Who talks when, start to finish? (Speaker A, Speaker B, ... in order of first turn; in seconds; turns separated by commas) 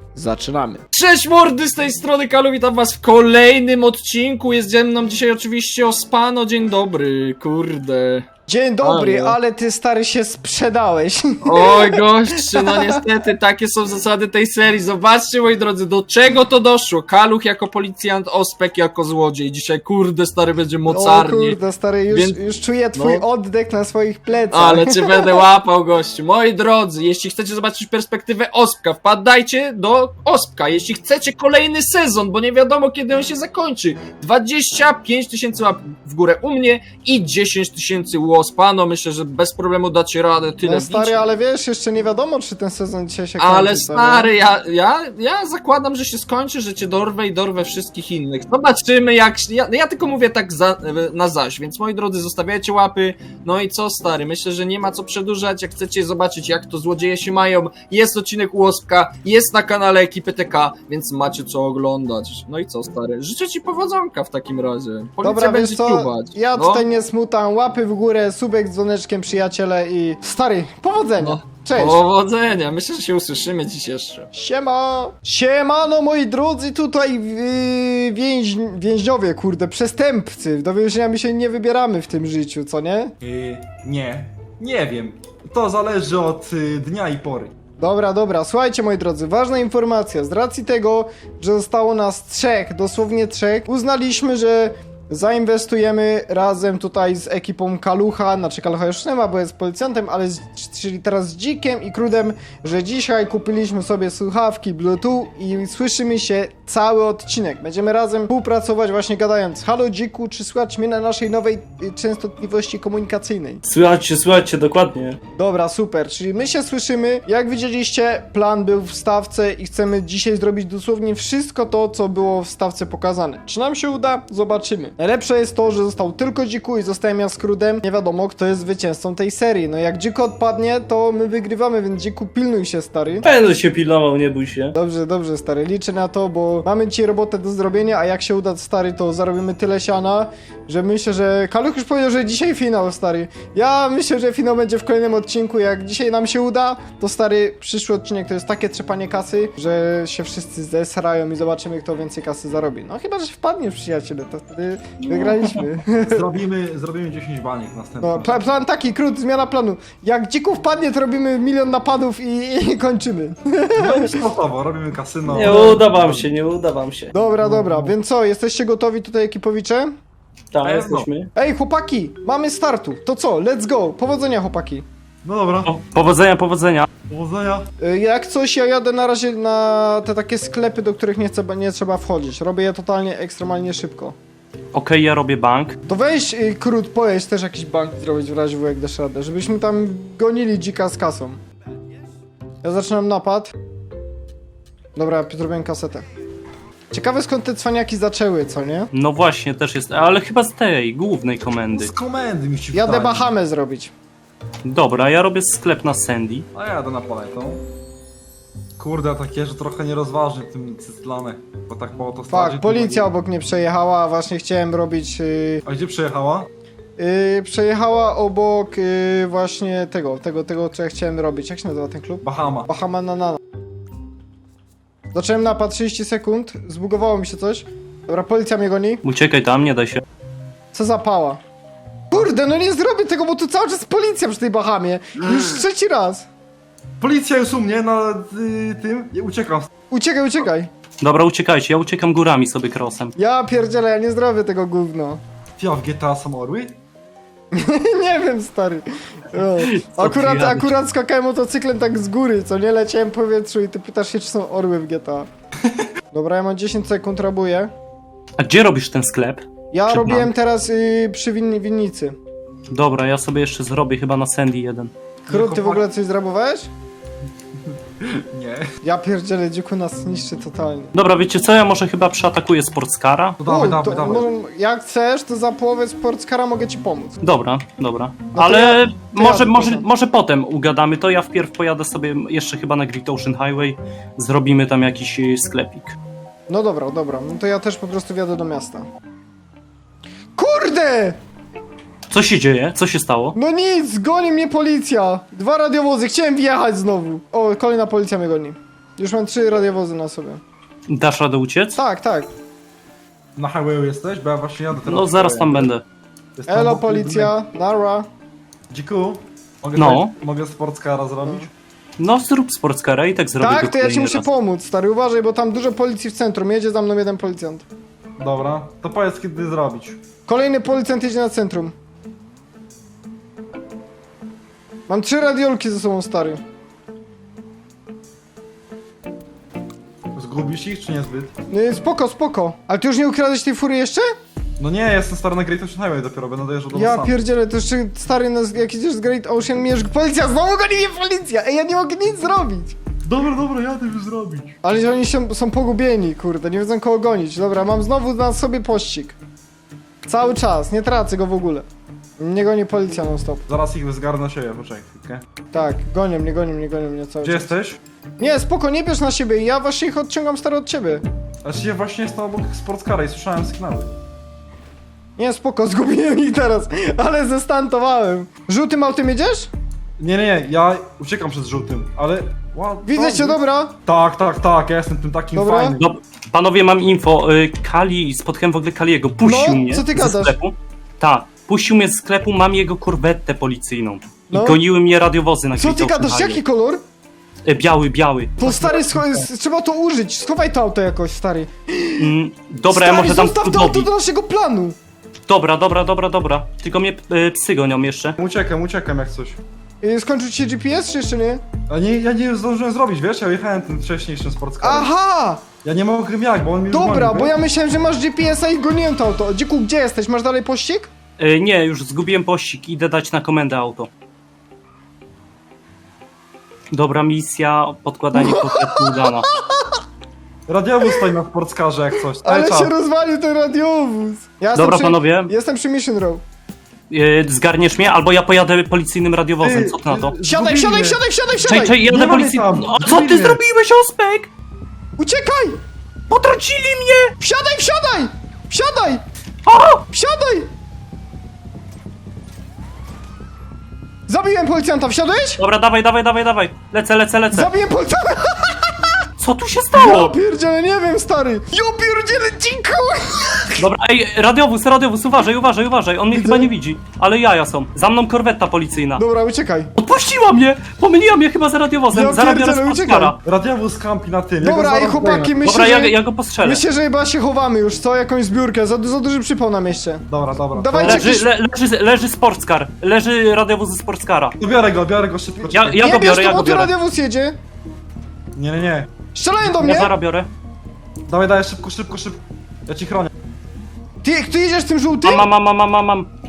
Speaker A: 0.1-0.8, Speaker B: 0.9-8.3, Speaker A: 8.5-12.9, Speaker B: 8.8-9.4, Speaker B: 11.4-22.4, Speaker A: 20.9-25.4, Speaker B: 22.9-23.2, Speaker B: 24.5-41.2, Speaker A: 40.6-44.3, Speaker B: 43.4-66.8, Speaker A: 65.2-72.0, Speaker B: 71.2-74.3, Speaker A: 74.3-83.1, Speaker C: 83.2-87.5, Speaker A: 87.8-113.6, Speaker D: 113.6-115.2, Speaker A: 115.4-133.3, Speaker D: 133.2-134.8, Speaker A: 134.8-156.2, Speaker C: 155.1-158.4, Speaker A: 158.0-164.2, Speaker C: 163.8-166.3, Speaker D: 165.3-167.1, Speaker A: 165.4-165.8, Speaker A: 167.1-169.9, Speaker C: 167.2-167.9, Speaker D: 170.5-171.3, Speaker C: 170.6-171.1, Speaker A: 171.3-174.8, Speaker C: 175.2-175.8, Speaker D: 175.6-176.9, Speaker C: 177.1-177.7, Speaker A: 177.8-184.2, Speaker D: 184.7-185.8, Speaker A: 185.9-191.4, Speaker A: 192.6-193.5, Speaker A: 195.0-196.1, Speaker A: 196.9-198.9, Speaker D: 198.9-201.9, Speaker C: 201.8-203.3, Speaker A: 202.7-203.9, Speaker D: 204.7-206.5, Speaker C: 206.5-207.6, Speaker C: 208.8-213.1, Speaker A: 212.3-215.6, Speaker C: 215.7-216.5, Speaker A: 217.0-223.4, Speaker C: 222.2-222.7, Speaker A: 225.1-229.0, Speaker D: 229.0-230.0, Speaker A: 230.7-231.4, Speaker A: 232.1-236.3, Speaker C: 237.0-239.7, Speaker A: 239.9-240.7, Speaker D: 241.0-243.2, Speaker A: 243.2-245.2, Speaker C: 245.6-246.8, Speaker A: 247.5-255.3, Speaker D: 249.6-250.7, Speaker A: 256.1-257.7, Speaker D: 258.4-260.3, Speaker A: 259.7-262.2, Speaker D: 262.7-264.9, Speaker A: 265.3-266.7, Speaker C: 265.3-265.9, Speaker C: 268.0-268.6, Speaker A: 268.8-270.9, Speaker D: 270.9-273.4, Speaker C: 273.4-274.3, Speaker A: 273.5-277.2, Speaker D: 277.2-286.0, Speaker A: 278.3-279.9, Speaker A: 286.5-288.9, Speaker A: 290.4-291.2, Speaker D: 292.1-293.4, Speaker A: 293.3-300.4, Speaker D: 300.9-301.8, Speaker A: 301.8-302.3, Speaker C: 303.4-305.7, Speaker D: 304.9-305.8, Speaker C: 306.4-307.4, Speaker A: 306.5-308.1, Speaker C: 308.7-311.5, Speaker D: 309.8-310.1, Speaker D: 312.0-314.3, Speaker A: 313.4-317.6, Speaker C: 318.2-320.0, Speaker A: 320.3-321.7, Speaker A: 324.9-326.4, Speaker C: 330.1-331.3, Speaker A: 331.5-334.1, Speaker C: 334.6-337.2, Speaker A: 336.7-342.8, Speaker C: 343.0-344.6, Speaker A: 344.6-349.2, Speaker A: 350.1-351.7, Speaker A: 352.2-353.4, Speaker C: 353.5-355.2, Speaker A: 355.5-357.5, Speaker C: 357.2-357.8, Speaker A: 358.2-361.0, Speaker C: 361.4-363.9, Speaker A: 365.2-369.5, Speaker C: 370.0-375.8, Speaker A: 372.9-373.7, Speaker A: 375.4-375.8, Speaker D: 375.8-386.4, Speaker A: 379.2-380.4, Speaker A: 384.3-384.6, Speaker A: 385.5-386.8, Speaker D: 387.4-388.4, Speaker A: 388.4-392.1, Speaker C: 388.4-389.3, Speaker D: 392.0-393.9, Speaker A: 392.7-394.8, Speaker D: 395.3-398.2, Speaker C: 398.2-399.4, Speaker A: 399.8-401.4, Speaker C: 401.7-404.9, Speaker A: 404.6-405.4, Speaker C: 405.6-407.4, Speaker A: 406.7-410.9, Speaker D: 411.2-413.9, Speaker D: 416.7-419.3, Speaker A: 418.1-419.8, Speaker C: 420.5-422.7, Speaker A: 420.8-421.1, Speaker A: 422.2-426.2, Speaker D: 424.6-425.3, Speaker D: 426.9-430.2, Speaker C: 429.4-431.0, Speaker A: 430.2-431.8, Speaker D: 431.4-434.3, Speaker C: 431.9-433.4, Speaker A: 435.0-435.6, Speaker D: 436.1-437.1, Speaker A: 437.2-439.0, Speaker D: 439.4-439.9, Speaker A: 439.9-440.5, Speaker A: 444.1-445.4, Speaker D: 445.4-447.5, Speaker A: 447.3-448.7, Speaker D: 449.2-450.2, Speaker A: 449.7-453.7, Speaker D: 453.6-459.0, Speaker A: 456.1-456.5, Speaker A: 459.0-459.7, Speaker D: 459.8-463.2, Speaker A: 461.9-463.2, Speaker C: 463.2-465.4, Speaker A: 464.4-471.3, Speaker D: 465.4-466.6, Speaker C: 470.1-471.2, Speaker D: 470.8-474.4, Speaker C: 474.4-475.8, Speaker A: 475.4-477.4, Speaker D: 475.5-476.7, Speaker C: 478.4-478.9, Speaker A: 479.1-479.9, Speaker D: 479.4-480.3, Speaker C: 481.1-483.1, Speaker A: 484.0-485.3, Speaker D: 485.0-486.1